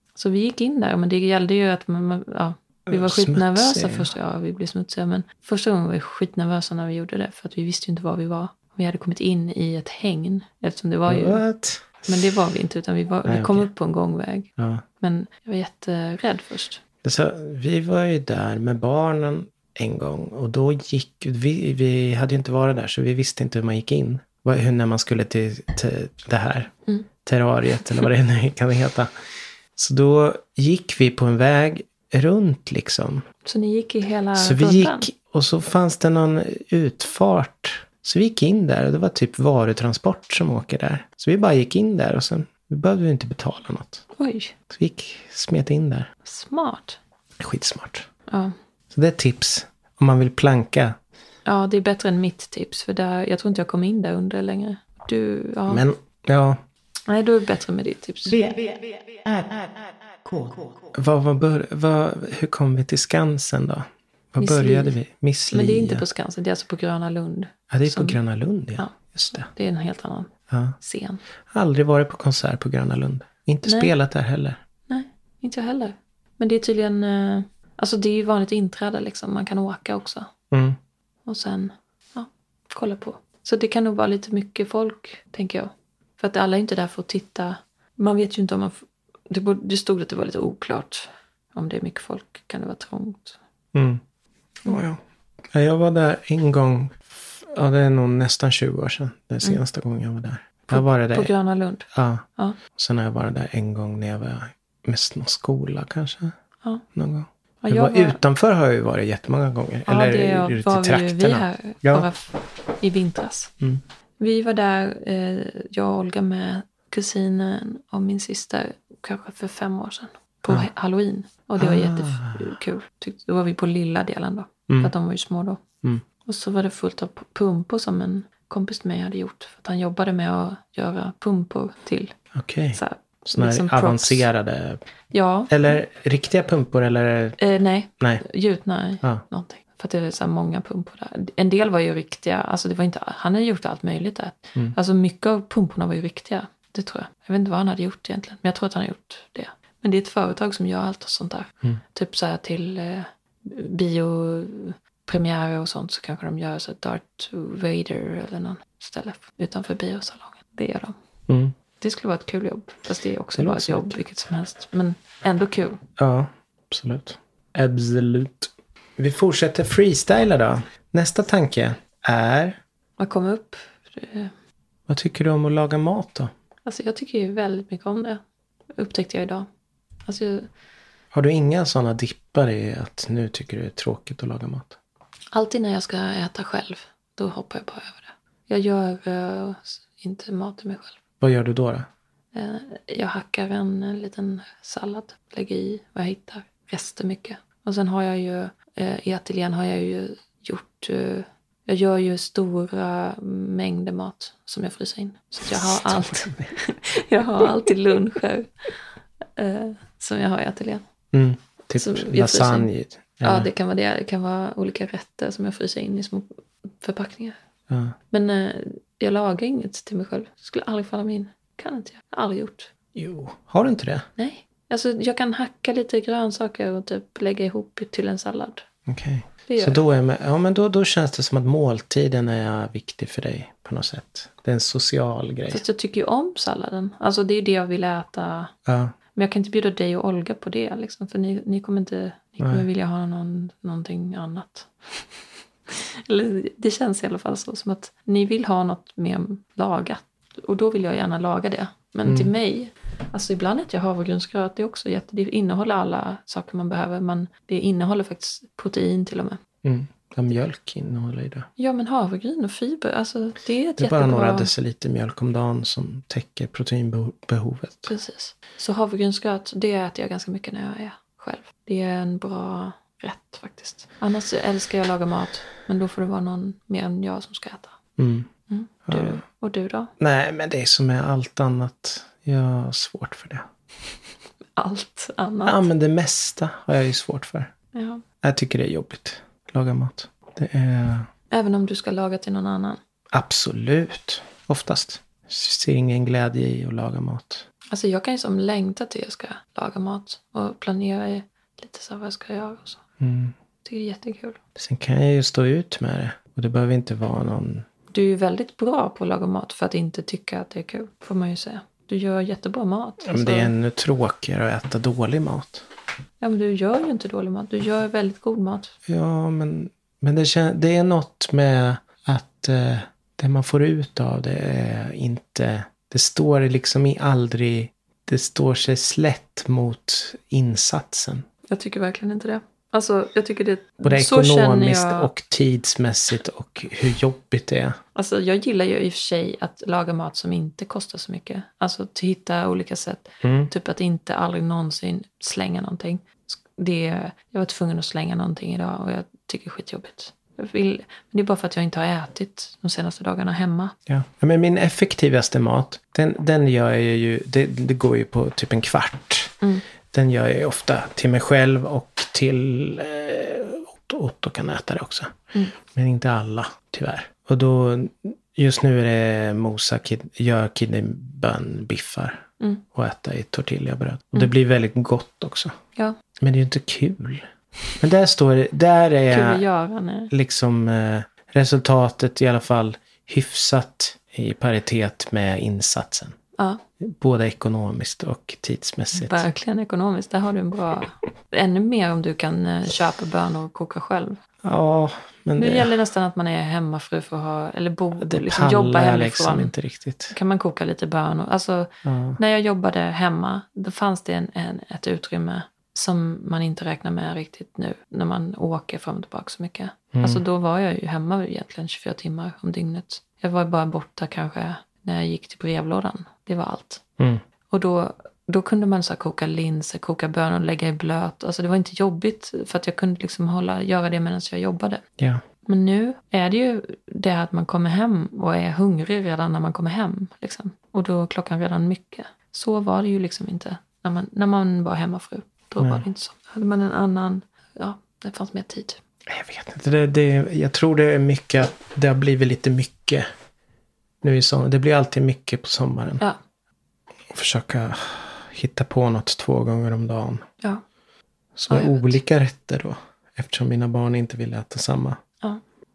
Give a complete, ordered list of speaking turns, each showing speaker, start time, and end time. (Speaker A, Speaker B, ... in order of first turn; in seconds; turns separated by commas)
Speaker A: 0.2-11.4, Speaker B: 2.9-4.1, Speaker B: 11.1-12.2, Speaker A: 12.1-14.5, Speaker B: 13.3-13.7, Speaker B: 14.6-14.8, Speaker A: 15.0-16.8, Speaker B: 17.0-26.7, Speaker B: 27.2-29.1, Speaker B: 29.8-33.2, Speaker A: 33.5-35.0, Speaker B: 34.4-44.0, Speaker A: 44.2-44.5, Speaker B: 44.7-46.1, Speaker A: 46.2-47.0, Speaker B: 47.4-48.1, Speaker A: 48.3-48.5, Speaker B: 48.9-51.0, Speaker A: 51.5-55.9, Speaker B: 55.7-56.6, Speaker A: 57.1-58.4, Speaker C: 58.3-60.9, Speaker B: 61.0-66.0, Speaker A: 64.4-65.0, Speaker A: 65.5-68.2, Speaker B: 67.7-69.5, Speaker A: 68.8-71.2, Speaker B: 70.5-70.8, Speaker B: 71.5-74.6, Speaker A: 73.7-73.9, Speaker A: 74.9-80.3, Speaker B: 80.5-80.8, Speaker A: 81.3-93.4, Speaker B: 93.7-94.0, Speaker B: 94.6-101.3, Speaker A: 100.7-102.6, Speaker B: 101.9-106.3, Speaker B: 107.0-112.1, Speaker A: 107.6-108.2, Speaker A: 109.9-113.5, Speaker A: 114.2-125.6, Speaker B: 121.6-122.5, Speaker B: 124.7-124.9, Speaker A: 126.2-132.2, Speaker B: 132.3-134.8, Speaker A: 132.7-134.3, Speaker A: 135.1-135.7, Speaker B: 135.5-137.4, Speaker A: 137.4-160.9, Speaker B: 161.3-161.6, Speaker A: 161.8-165.8, Speaker B: 163.4-164.0, Speaker B: 166.0-172.6, Speaker A: 173.0-174.3, Speaker B: 174.9-176.3, Speaker A: 176.7-178.2, Speaker A: 178.8-179.5, Speaker A: 180.1-180.5, Speaker B: 181.1-184.8, Speaker A: 185.3-191.0, Speaker B: 191.2-191.9, Speaker A: 192.3-208.5, Speaker B: 205.5-206.6, Speaker A: 209.4-210.8, Speaker B: 211.1-213.5, Speaker A: 211.8-212.7, Speaker A: 213.2-216.3, Speaker A: 216.8-217.4, Speaker B: 217.7-217.9, Speaker A: 218.1-222.7, Speaker B: 222.9-224.1, Speaker A: 224.2-228.7, Speaker B: 228.9-235.6, Speaker A: 229.5-229.8, Speaker A: 235.5-238.5, Speaker B: 238.7-238.9, Speaker A: 239.1-245.0, Speaker B: 242.4-242.7, Speaker A: 245.7-259.4, Speaker B: 252.1-252.3, Speaker B: 259.6-261.5, Speaker A: 261.6-264.5, Speaker B: 263.8-267.9, Speaker A: 267.9-277.8, Speaker B: 278.0-278.3, Speaker A: 278.5-279.9, Speaker B: 278.9-279.2, Speaker B: 280.0-283.5, Speaker A: 284.6-285.6, Speaker B: 285.4-287.5, Speaker A: 287.7-288.0, Speaker B: 288.2-291.1, Speaker A: 291.3-292.8, Speaker B: 293.1-297.5, Speaker A: 297.7-302.8, Speaker B: 303.0-303.4, Speaker A: 303.6-304.4, Speaker B: 304.6-307.7, Speaker A: 307.9-313.5, Speaker B: 313.0-315.7, Speaker A: 316.2-318.7, Speaker B: 318.9-331.3, Speaker A: 331.5-335.1, Speaker B: 333.8-337.8, Speaker A: 337.9-353.8, Speaker B: 343.2-343.5, Speaker B: 353.9-359.4, Speaker B: 359.9-365.1, Speaker B: 365.7-375.5, Speaker B: 376.2-377.3, Speaker B: 377.8-379.4, Speaker A: 379.1-380.1, Speaker B: 380.1-386.2, Speaker B: 386.8-389.2, Speaker A: 388.9-394.2, Speaker B: 394.4-395.7, Speaker A: 395.4-399.5, Speaker B: 398.0-400.1, Speaker A: 400.1-416.8, Speaker B: 401.9-402.2, Speaker B: 409.9-410.2, Speaker A: 417.5-424.8, Speaker A: 425.4-438.8, Speaker B: 435.6-435.8, Speaker B: 439.1-443.1, Speaker B: 444.0-446.0, Speaker B: 447.1-450.2, Speaker B: 451.4-455.0, Speaker A: 451.5-452.0